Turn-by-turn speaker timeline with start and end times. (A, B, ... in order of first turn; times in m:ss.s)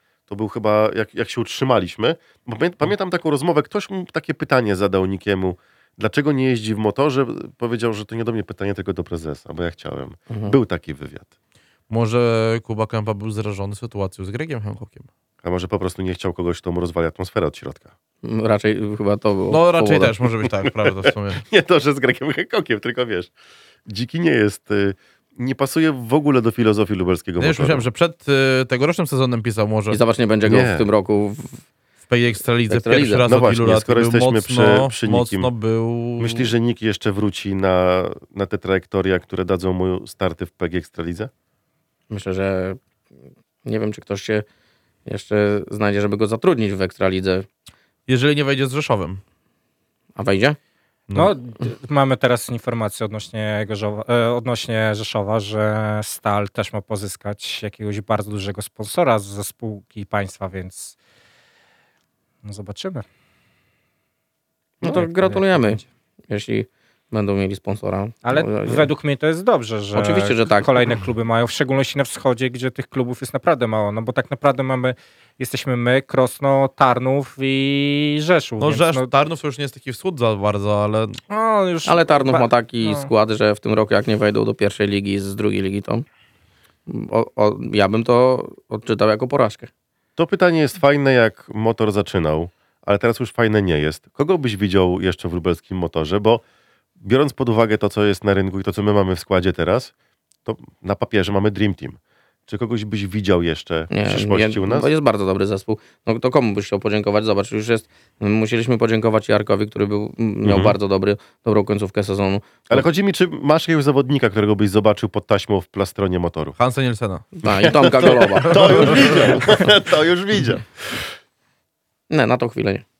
0:00.3-0:11.3 A
0:10.3-0:10.6 B
0:11.9-0:15.1 C
0:15.4-0:17.9 A
0:18.2-0:20.1 B
0:19.5-0:21.4 C
0:20.8-0:23.3 A
0:23.8-0:27.8 A
0:27.4-0:30.0 C
0:29.9-0:31.6 B
0:30.4-0:30.9 A
0:32.0-0:36.5 C
0:32.7-0:33.2 B
0:33.2-0:35.5 A
0:36.2-0:41.3 A
0:42.1-0:42.8 B
0:43.6-0:44.4 B
0:45.0-0:47.5 B
0:48.1-0:49.2 C
0:50.2-0:50.6 B
0:51.1-1:01.0 D
1:02.4-1:03.0 D
1:04.8-1:08.9 B
1:04.8-1:05.8 D
1:08.2-1:19.1 D
1:09.9-1:11.0 B
1:18.6-1:21.2 C
1:21.3-1:23.1 D
1:21.8-1:26.0 B
1:26.9-1:29.7 B
1:30.2-1:36.4 A
1:37.0-1:39.9 A
1:40.4-1:44.9 A
1:43.9-1:52.8 B
1:50.4-1:50.8 A
1:52.7-1:56.6 A
1:56.6-1:59.4 C
1:57.4-1:59.0 B
1:57.4-2:01.1 A
2:02.1-2:02.8 B